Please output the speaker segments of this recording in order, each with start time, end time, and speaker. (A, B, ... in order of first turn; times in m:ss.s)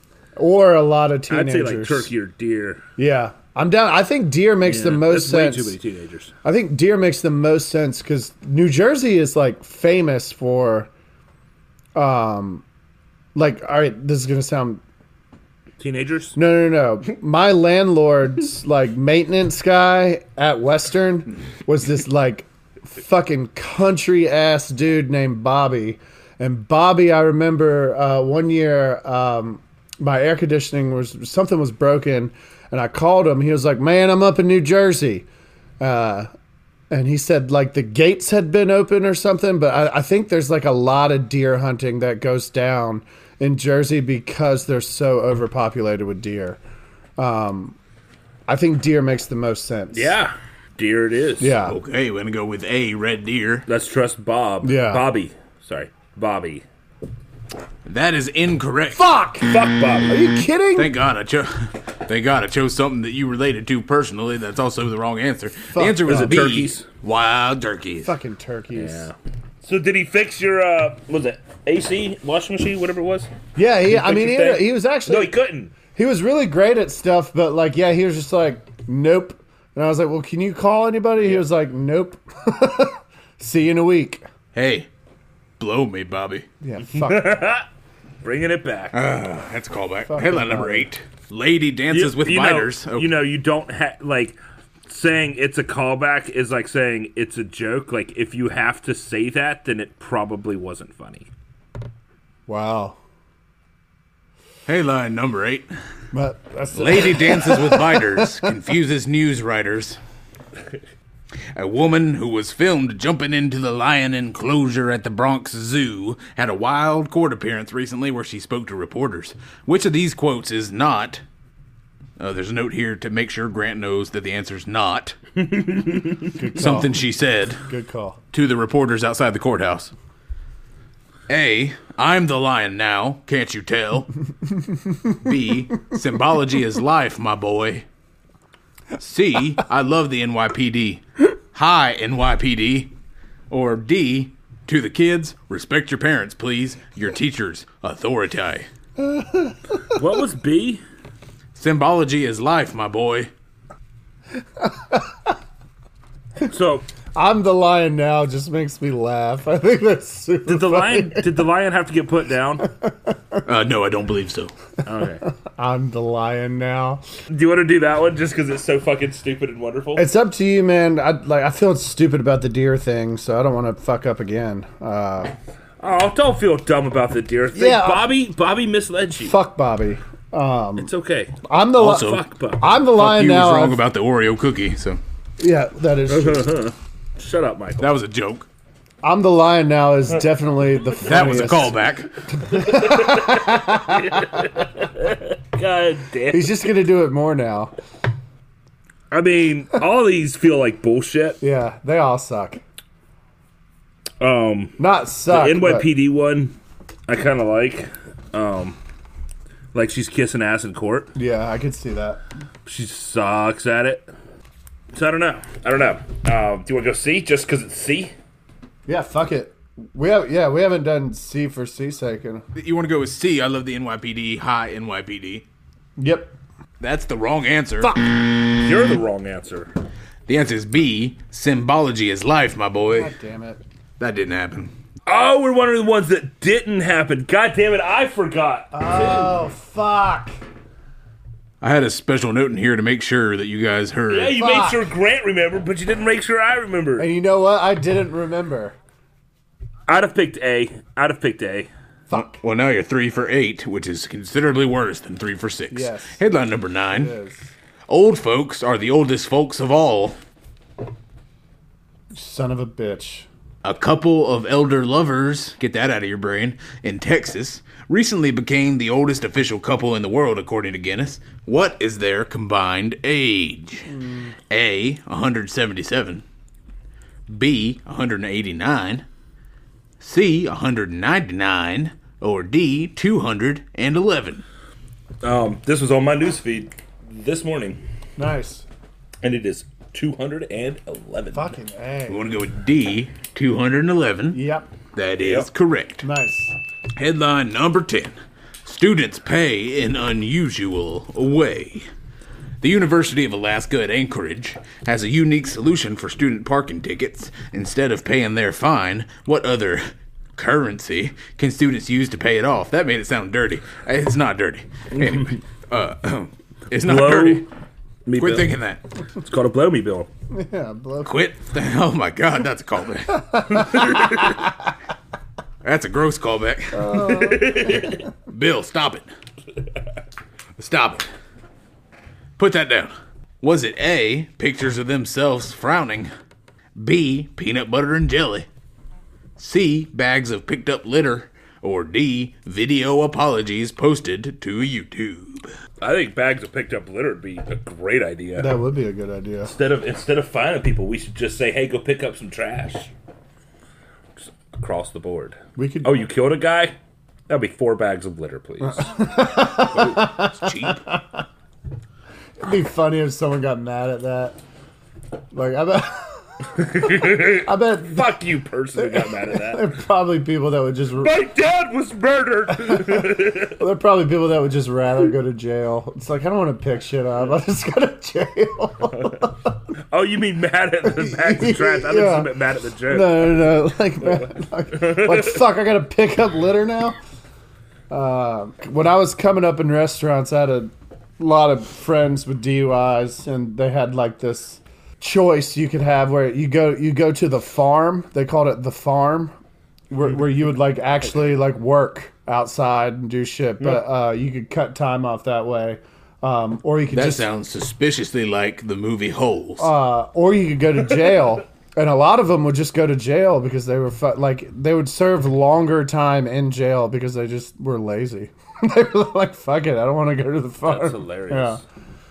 0:00.4-0:02.1 A
0:01.3-0:02.8 B
0:03.0-0:05.8 A
0:04.6-0:06.3 B
0:06.4-0:10.9 A
0:11.9-0:12.6 A
0:13.3-0:14.8 A
0:15.8-0:16.4 B
0:16.4-0:35.2 A
0:35.8-0:36.3 A
0:36.9-0:46.6 A
0:47.2-0:47.8 A
0:48.5-0:50.1 A
0:49.9-0:51.6 B
0:51.4-0:51.8 A
0:51.6-0:53.6 C
0:53.7-0:56.6 B
0:54.6-0:55.0 A
0:57.8-0:59.0 C
0:58.9-1:00.9 A
0:59.4-1:00.3 B
1:00.8-1:08.1 C
1:05.7-1:06.3 A
1:06.0-1:06.8 B
1:08.0-1:09.1 A
1:08.7-1:13.3 B
1:13.6-1:15.3 A
1:13.9-1:15.7 B
1:15.9-1:24.2 A
1:24.5-1:24.9 C
1:25.6-1:26.4 C
1:26.6-1:27.4 A
1:26.9-1:27.6 B
1:28.2-1:28.9 B
1:28.9-1:33.1 C
1:30.1-1:30.9 A
1:31.9-1:41.3 B
1:42.5-1:43.0 A
1:44.6-1:45.7 C
1:46.1-1:48.4 A
1:46.7-1:50.0 C
1:51.5-2:01.2 C
2:02.2-2:05.2 C
2:05.6-2:06.2 B
2:06.3-2:06.9 A
2:06.5-2:07.6 C
2:07.6-2:08.2 A
2:08.3-2:09.9 C
2:11.3-2:14.1 C
2:15.2-2:17.8 C
2:19.0-2:22.9 C
2:23.5-2:28.7 C
2:29.0-2:30.0 A
2:29.9-2:30.8 B
2:31.5-2:33.3 C
2:34.6-2:35.3 A
2:36.5-2:36.8 B
2:37.1-2:41.3 A
2:40.5-2:42.6 B
2:42.6-2:43.4 A
2:43.4-2:44.5 C
2:44.8-2:45.2 B
2:45.4-2:47.0 A
2:47.3-2:50.0 B
2:50.0-2:55.3 A
2:55.8-2:59.3 B
2:57.5-2:58.1 A
2:59.2-3:00.9 A
3:00.8-3:02.7 B
3:01.4-3:03.8 A
3:01.8-3:02.2 C
3:02.8-3:05.0 C
3:05.4-3:06.6 A
3:06.1-3:07.9 B
3:07.8-3:08.5 C
3:09.0-3:14.4 A
3:11.0-3:12.1 C
3:12.5-3:16.6 B
3:16.3-3:17.7 A
3:19.1-3:21.4 B
3:21.4-3:22.6 A
3:24.2-3:24.8 B
3:24.8-3:25.9 A
3:25.3-3:26.5 B
3:27.1-3:28.8 B
3:29.7-3:31.1 B
3:31.1-3:32.2 A
3:32.6-3:34.1 B
3:34.9-3:38.1 B
3:38.8-3:42.4 A
3:42.5-3:45.4 C
3:46.0-3:46.4 A
3:46.8-3:48.0 C
3:48.5-3:49.7 B
3:50.3-3:53.1 C
3:52.9-3:53.6 A
3:54.0-3:54.7 C
3:55.1-3:59.4 B
3:58.7-4:00.4 A
4:01.6-4:04.4 C
4:04.1-4:07.1 B
4:04.3-4:04.8 A
4:07.0-4:08.8 A
4:09.9-4:11.7 B
4:12.1-4:12.4 A
4:12.1-4:17.1 C
4:15.7-4:16.2 A
4:16.9-4:17.5 A
4:17.9-4:20.2 C
4:22.1-4:23.3 A
4:23.6-4:33.9 C
4:33.9-4:34.3 A
4:34.5-4:36.2 C
4:37.3-4:39.0 C
4:40.0-4:44.4 C
4:45.2-4:47.8 B
4:48.2-4:48.6 A
4:49.2-4:51.6 B
4:51.3-4:52.2 A
4:52.1-4:54.4 C
4:54.3-4:54.7 A
4:54.9-4:56.0 C
4:55.2-4:55.5 B
4:56.0-4:56.6 A
4:57.0-4:58.1 C
4:58.6-5:01.9 C
5:02.6-5:17.5 C
5:14.9-5:15.4 B
5:16.8-5:17.5 B
5:18.0-5:18.5 B
5:18.2-5:18.8 C
5:19.2-5:20.1 B
5:20.3-5:21.2 A
5:21.0-5:23.7 C
5:23.1-5:24.5 A
5:25.6-5:27.1 C
5:26.7-5:28.0 A
5:27.0-5:28.0 B
5:28.3-5:29.1 C
5:30.6-5:31.1 C
5:32.4-5:36.1 C
5:36.8-5:38.5 C
5:39.4-5:45.5 C
5:45.8-5:48.5 B
5:48.4-5:49.5 A
5:49.4-5:52.9 B
5:54.5-5:56.7 B
5:55.6-5:56.0 A
5:57.3-5:58.9 B
5:58.8-6:01.2 A
5:59.4-6:00.8 C
6:02.4-6:04.4 A
6:05.3-6:08.2 A
6:06.7-6:09.6 B
6:08.8-6:11.2 A
6:11.0-6:13.6 B
6:12.5-6:19.5 A
6:18.9-6:19.2 B
6:19.9-6:25.4 B
6:20.9-6:22.3 A
6:22.9-6:27.0 A
6:27.9-6:39.3 A
6:39.9-6:47.3 A
6:46.9-6:49.7 C
6:49.6-7:01.6 A
7:00.6-7:01.6 B